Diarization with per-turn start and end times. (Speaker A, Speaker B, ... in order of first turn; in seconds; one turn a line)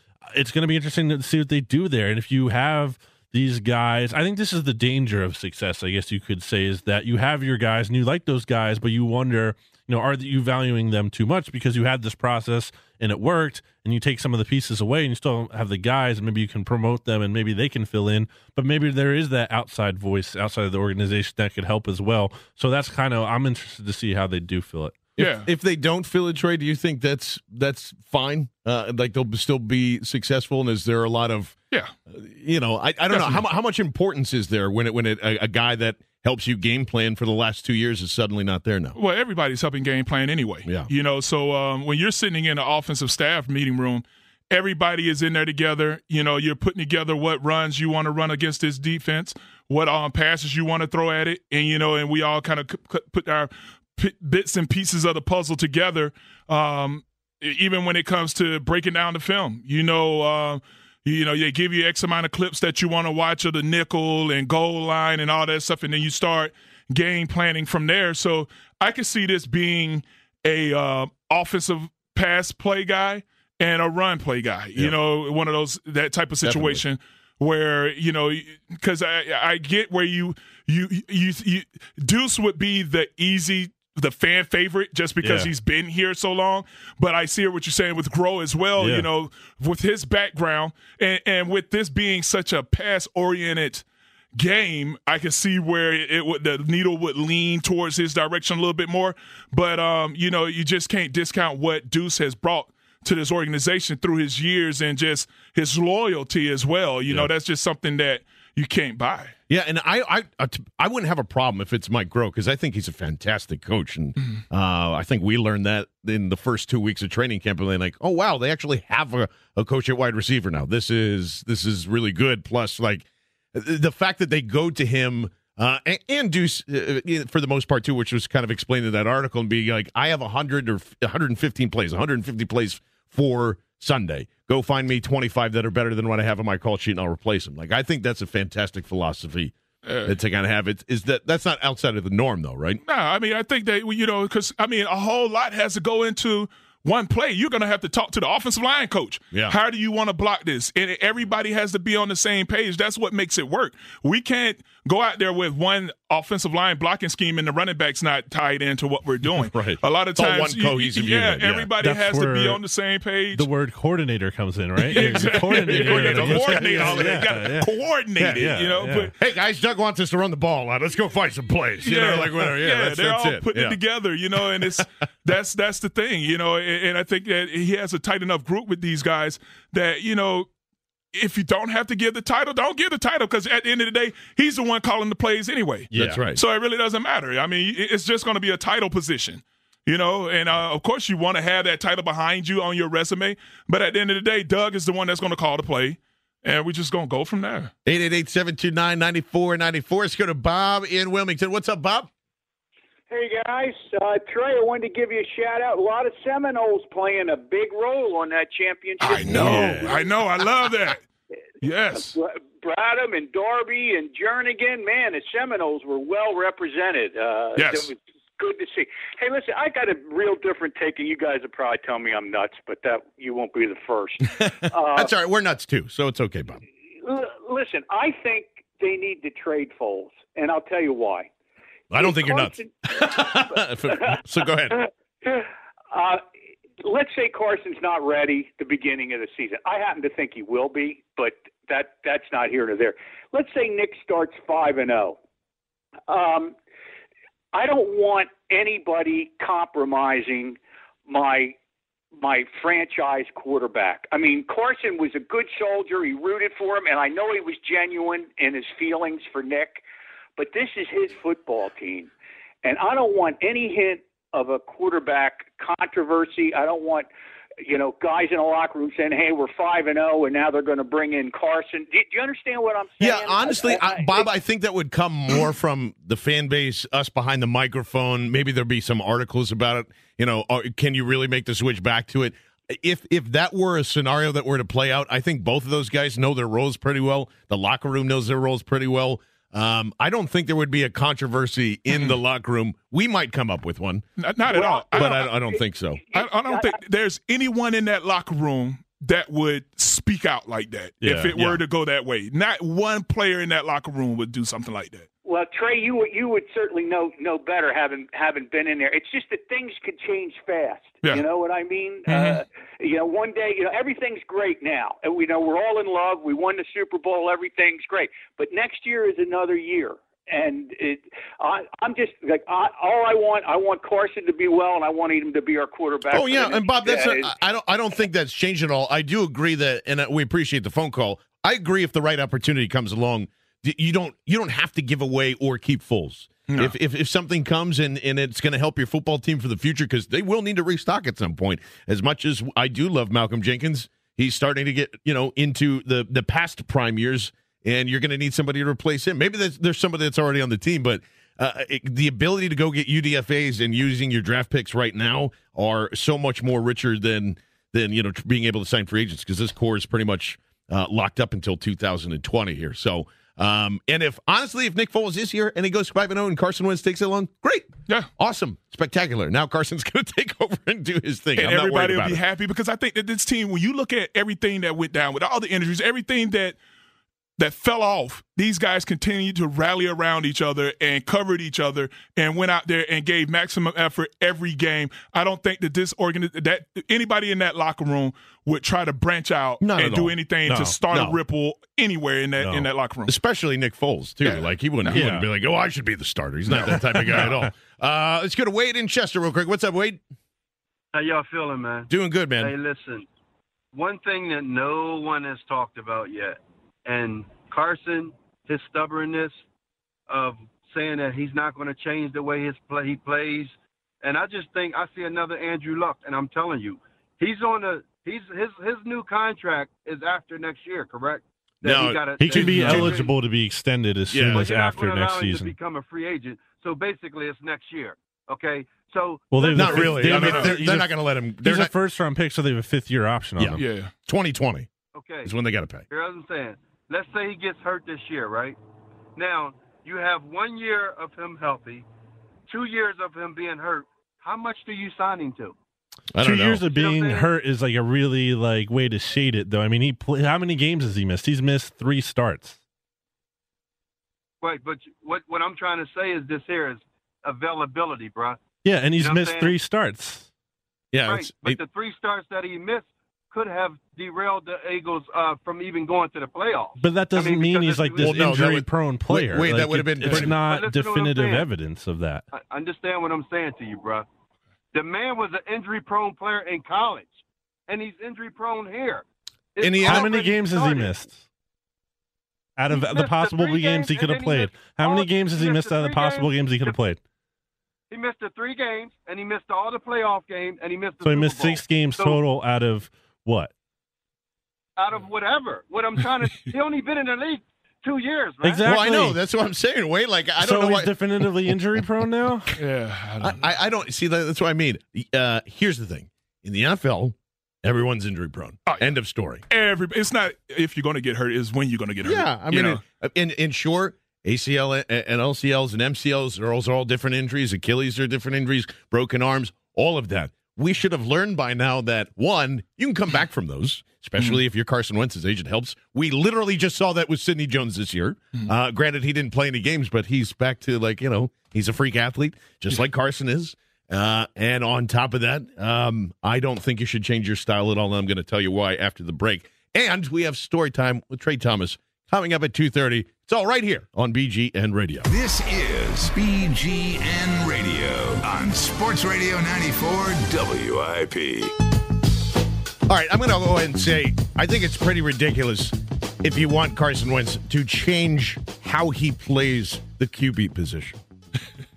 Speaker A: 0.3-25.0
Speaker B: 25.2-25.5
Speaker C: 25.2-31.6
Speaker C: 32.1-39.0
Speaker B: 33.1-33.4
Speaker B: 39.0-93.8
Speaker C: 76.4-76.8
Speaker A: 85.2-85.5
Speaker A: 88.8-89.1
Speaker B: 94.3-109.3
Speaker C: 109.5-142.8
Speaker B: 139.8-140.1
Speaker B: 142.9-163.5
Speaker C: 159.3-161.7
Speaker A: 161.8-162.6
Speaker A: 163.3-167.7
Speaker C: 164.8-167.7
Speaker B: 164.9-169.1
Speaker C: 168.2-168.5
Speaker A: 168.3-169.1
Speaker C: 169.1-173.8
Speaker B: 171.8-180.5
Speaker B: 181.1-197.7
Speaker A: 185.9-186.2
Speaker C: 185.9-186.4
Speaker C: 197.8-202.1
Speaker D: 203.1-210.1
Speaker B: 209.0-211.0
Speaker C: 209.3-209.9
Speaker B: 211.6-212.2
Speaker D: 212.0-225.1
Speaker B: 217.6-217.9
Speaker C: 224.9-226.6
Speaker D: 227.0-231.3
Speaker C: 231.9-234.8
Speaker D: 231.9-236.2
Speaker D: 236.8-245.2
Speaker D: 246.1-246.6
Speaker D: 247.5-251.6
Speaker D: 252.2-259.8
Speaker D: 260.4-262.1
Speaker D: 262.6-267.1
Speaker D: 267.6-274.3
Speaker C: 273.0-294.1
Speaker B: 291.9-292.2
Speaker B: 294.2-295.5
Speaker D: 294.5-295.2
Speaker C: 294.9-296.1
Speaker B: 296.1-305.1
Speaker D: 296.1-296.7
Speaker A: 301.0-301.3
Speaker C: 301.0-301.6
Speaker D: 305.2-327.3
Speaker B: 312.1-312.4
Speaker C: 326.1-372.2
Speaker B: 336.5-336.7
Speaker B: 371.4-376.6
Speaker B: 377.4-393.1
Speaker C: 389.6-391.2
Speaker A: 390.5-390.7
Speaker C: 393.1-400.0
Speaker B: 394.2-395.0
Speaker A: 394.9-395.3
Speaker B: 396.6-397.3
Speaker E: 400.9-401.9
Speaker C: 401.9-402.5
Speaker E: 402.4-403.1
Speaker E: 403.7-409.4
Speaker E: 410.1-423.1
Speaker C: 421.6-423.0
Speaker A: 422.2-425.5
Speaker B: 422.5-422.8
Speaker C: 424.1-424.5
Speaker E: 424.3-430.2
Speaker A: 429.3-433.6
Speaker C: 429.5-431.7
Speaker B: 430.1-430.5
Speaker C: 433.4-434.7
Speaker B: 433.6-433.9
Speaker E: 434.9-435.3
Speaker C: 435.2-435.9
Speaker E: 435.9-438.6
Speaker E: 439.2-441.9
Speaker E: 442.5-445.6
Speaker C: 446.1-446.6
Speaker A: 446.2-452.6
Speaker E: 446.6-447.3
Speaker E: 454.4-458.4
Speaker A: 458.6-460.3
Speaker E: 459.0-459.6
Speaker C: 460.9-461.6
Speaker E: 461.1-468.2
Speaker A: 466.8-472.2
Speaker C: 468.0-470.4
Speaker E: 470.1-471.5
Speaker E: 472.3-474.1
Speaker E: 474.7-479.0
Speaker E: 479.6-480.9
Speaker C: 479.6-480.1
Speaker A: 479.8-481.2
Speaker A: 482.6-487.0
Speaker E: 482.7-486.8
Speaker E: 487.9-492.2
Speaker A: 491.0-493.5
Speaker E: 494.8-498.7
Speaker A: 498.4-499.2
Speaker C: 498.6-500.9
Speaker A: 500.4-502.6
Speaker B: 502.6-503.4
Speaker C: 503.2-509.4
Speaker B: 508.7-509.0
Speaker B: 509.5-512.8
Speaker C: 512.0-545.1
Speaker F: 545.1-551.5
Speaker C: 552.9-561.0